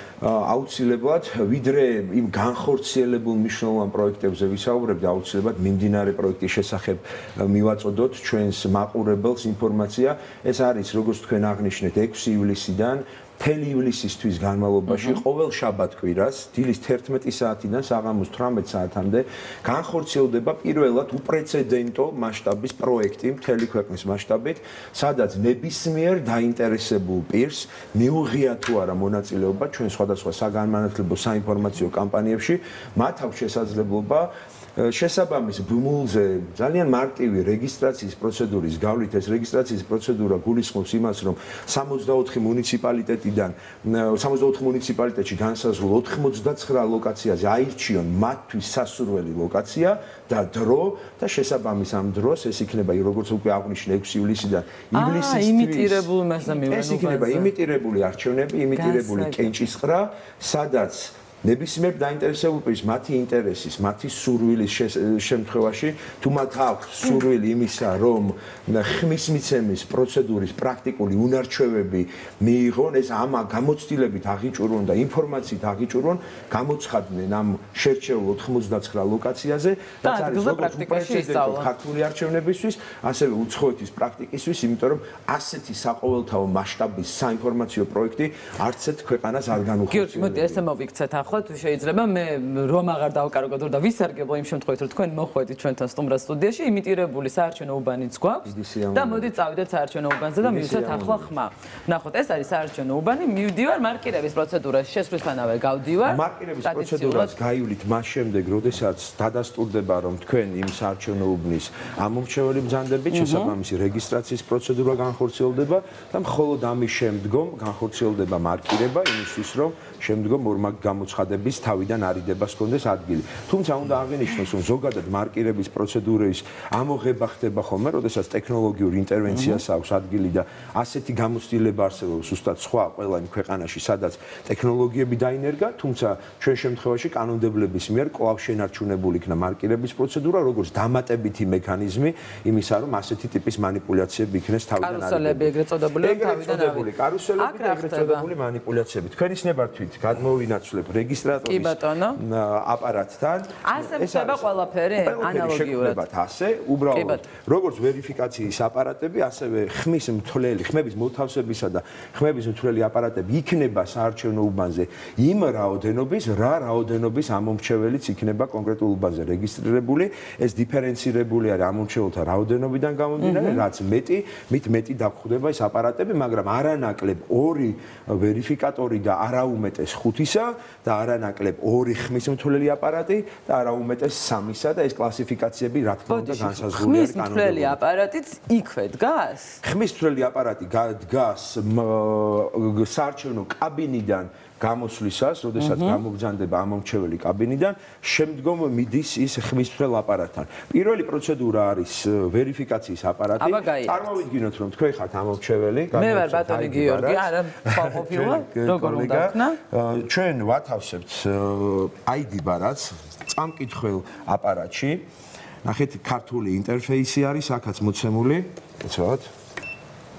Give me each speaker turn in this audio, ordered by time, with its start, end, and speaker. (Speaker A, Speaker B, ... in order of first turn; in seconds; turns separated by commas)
Speaker A: 0.2-56.1, Speaker B: 54.9-57.5, Speaker A: 56.7-90.6, Speaker B: 58.7-59.5, Speaker B: 80.0-81.7, Speaker B: 89.9-107.3, Speaker A: 98.4-99.3, Speaker A: 100.4-101.3, Speaker A: 106.0-187.8, Speaker B: 113.1-113.5, Speaker B: 129.3-129.6, Speaker B: 144.8-148.3, Speaker B: 151.5-152.2, Speaker B: 153.6-156.0, Speaker B: 156.9-157.2, Speaker B: 173.2-173.7, Speaker B: 186.1-189.6, Speaker A: 189.6-215.0, Speaker B: 195.6-196.0, Speaker B: 203.4-204.2, Speaker B: 205.9-209.6, Speaker A: 215.6-219.3